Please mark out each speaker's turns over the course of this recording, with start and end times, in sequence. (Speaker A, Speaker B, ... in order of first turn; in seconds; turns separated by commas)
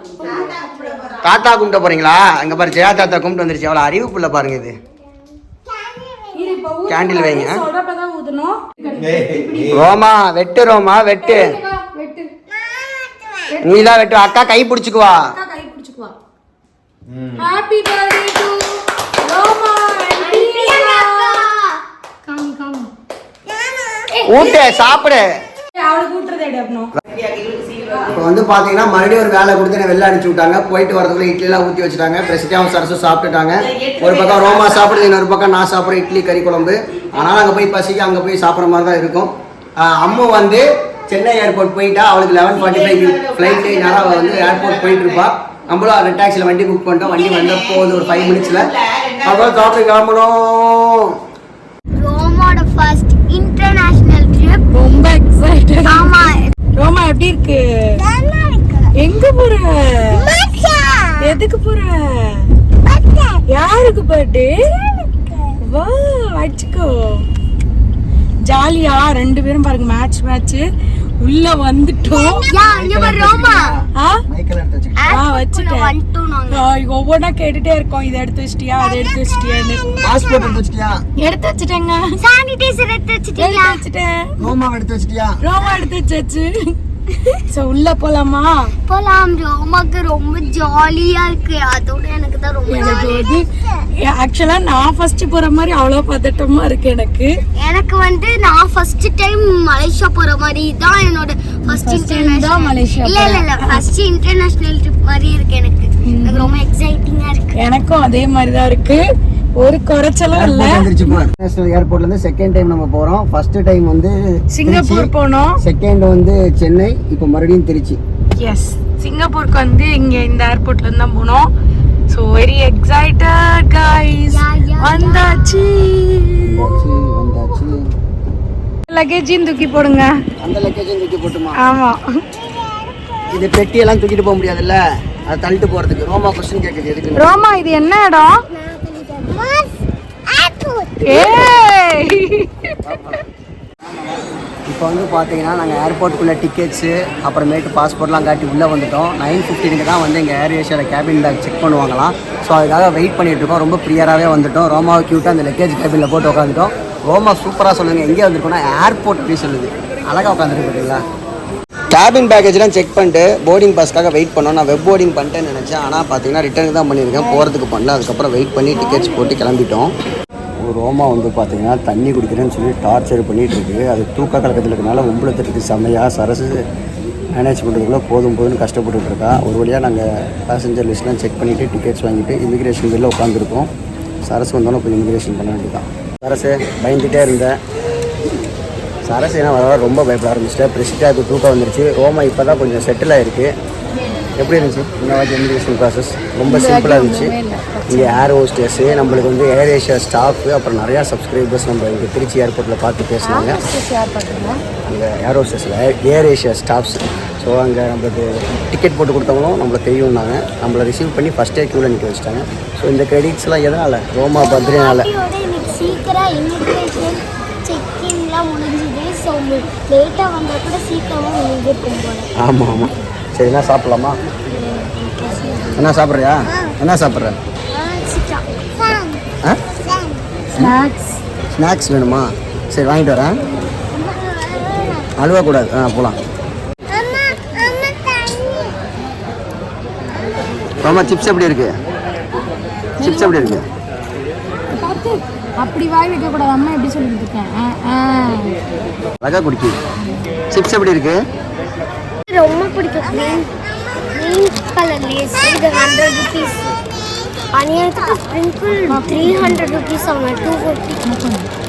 Speaker A: 0.3-1.0, Speaker B: 1.2-4.8, Speaker C: 5.7-6.6, Speaker A: 6.3-9.8, Speaker B: 6.9-7.6, Speaker B: 9.7-11.6, Speaker A: 11.2-12.3, Speaker C: 12.8-13.5, Speaker A: 13.5-14.0, Speaker B: 13.6-15.3, Speaker A: 15.1-16.1, Speaker A: 17.4-21.5, Speaker C: 20.2-21.8, Speaker A: 22.3-22.7, Speaker C: 22.4-22.9, Speaker C: 23.6-24.6, Speaker B: 24.2-25.3, Speaker A: 25.8-26.9, Speaker B: 27.9-51.1, Speaker C: 52.0-54.7, Speaker A: 54.7-57.6, Speaker C: 55.9-56.5, Speaker C: 58.0-58.9, Speaker A: 59.0-60.3, Speaker C: 60.1-61.4, Speaker A: 61.2-62.5, Speaker C: 62.9-63.4, Speaker A: 63.5-64.6, Speaker C: 64.6-65.6, Speaker A: 65.6-67.3, Speaker A: 68.5-70.7, Speaker A: 71.2-72.5, Speaker C: 72.1-73.7, Speaker B: 72.6-75.1, Speaker C: 75.0-76.7, Speaker A: 75.1-75.9, Speaker A: 76.5-79.8, Speaker C: 78.8-80.6, Speaker B: 80.0-81.0, Speaker A: 81.2-82.1, Speaker C: 82.2-83.8, Speaker A: 83.4-84.3, Speaker B: 84.4-85.4, Speaker A: 85.4-86.5, Speaker A: 87.4-88.7, Speaker C: 88.9-93.9, Speaker A: 92.7-93.5, Speaker A: 94.0-97.3, Speaker C: 97.6-107.6, Speaker A: 101.7-103.8, Speaker A: 106.0-106.5, Speaker A: 107.5-109.0, Speaker A: 109.6-111.1, Speaker B: 110.3-118.0, Speaker A: 114.5-115.6, Speaker A: 118.4-121.5, Speaker A: 122.1-126.5, Speaker C: 124.3-125.5, Speaker B: 126.4-127.8, Speaker A: 128.9-130.1, Speaker B: 130.4-131.6, Speaker A: 131.6-132.0, Speaker C: 132.4-133.2, Speaker B: 133.3-137.4, Speaker A: 137.2-138.3, Speaker C: 138.5-141.6, Speaker A: 141.1-142.7, Speaker B: 142.8-143.2, Speaker B: 144.7-161.0, Speaker B: 161.9-169.9, Speaker A: 168.7-169.4, Speaker B: 170.6-176.6, Speaker B: 177.3-183.7, Speaker B: 184.2-187.6, Speaker B: 189.1-193.5, Speaker B: 194.4-197.3, Speaker A: 196.5-198.2, Speaker B: 197.9-203.6, Speaker A: 203.2-204.6, Speaker B: 204.9-215.1, Speaker C: 214.3-222.3, Speaker B: 222.4-224.2, Speaker C: 224.5-226.0, Speaker B: 225.8-227.4, Speaker C: 226.5-226.8, Speaker C: 227.7-229.2, Speaker C: 229.8-230.2, Speaker A: 230.5-231.2, Speaker B: 231.6-233.4, Speaker C: 233.8-235.1, Speaker B: 235.2-236.2, Speaker C: 236.9-238.8, Speaker B: 240.8-241.7, Speaker B: 243.0-243.7, Speaker A: 243.0-243.6, Speaker A: 244.7-248.5, Speaker B: 249.2-249.8, Speaker B: 250.5-251.2, Speaker C: 252.3-253.5, Speaker C: 254.1-256.7, Speaker C: 257.5-261.0, Speaker A: 258.9-259.6, Speaker A: 261.0-261.5